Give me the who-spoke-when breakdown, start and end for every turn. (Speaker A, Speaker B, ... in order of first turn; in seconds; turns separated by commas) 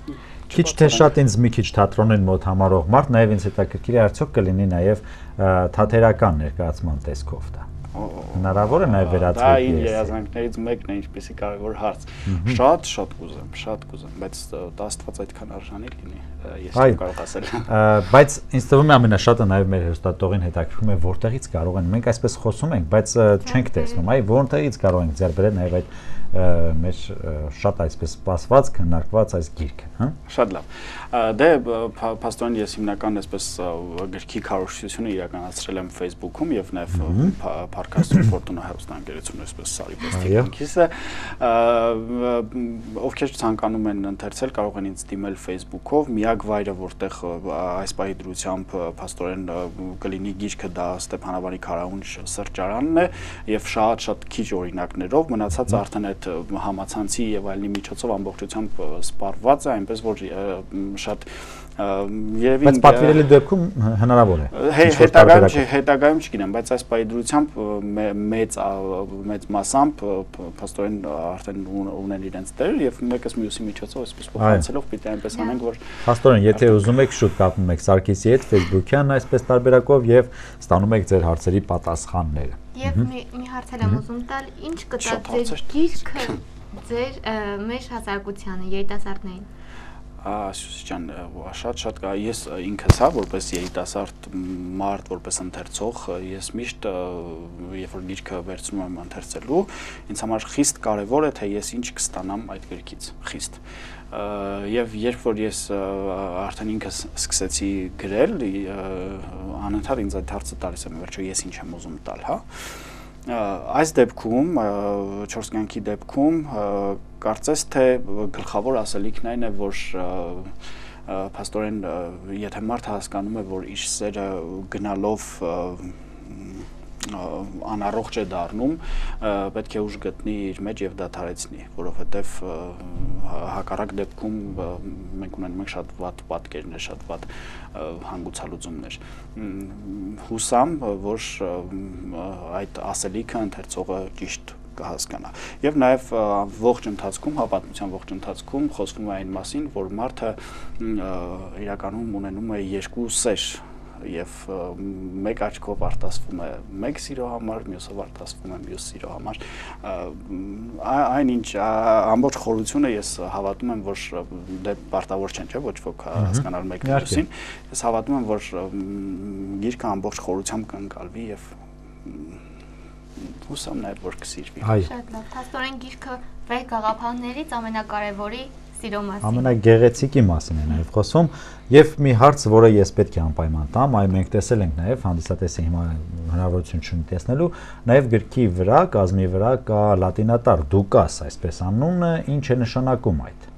Speaker A: 0.5-1.1, Speaker B: 0.5-7.7, Speaker A: 7.9-17.7, Speaker B: 8.3-10.1, Speaker B: 12.3-12.6, Speaker B: 16.8-17.0, Speaker B: 17.7-30.2, Speaker A: 30.3-63.3, Speaker B: 37.0-37.3, Speaker B: 40.1-40.5, Speaker B: 62.6-65.6, Speaker A: 64.5-76.0, Speaker B: 74.4-74.7, Speaker B: 76.0-83.1, Speaker C: 82.8-89.5, Speaker A: 85.0-86.4, Speaker A: 90.2-103.6, Speaker A: 104.1-112.8, Speaker A: 113.3-171.5, Speaker B: 166.3-167.2, Speaker A: 172.0-172.4, Speaker A: 173.2-174.7, Speaker B: 174.6-174.9, Speaker C: 174.8-179.6, Speaker B: 179.2-193.5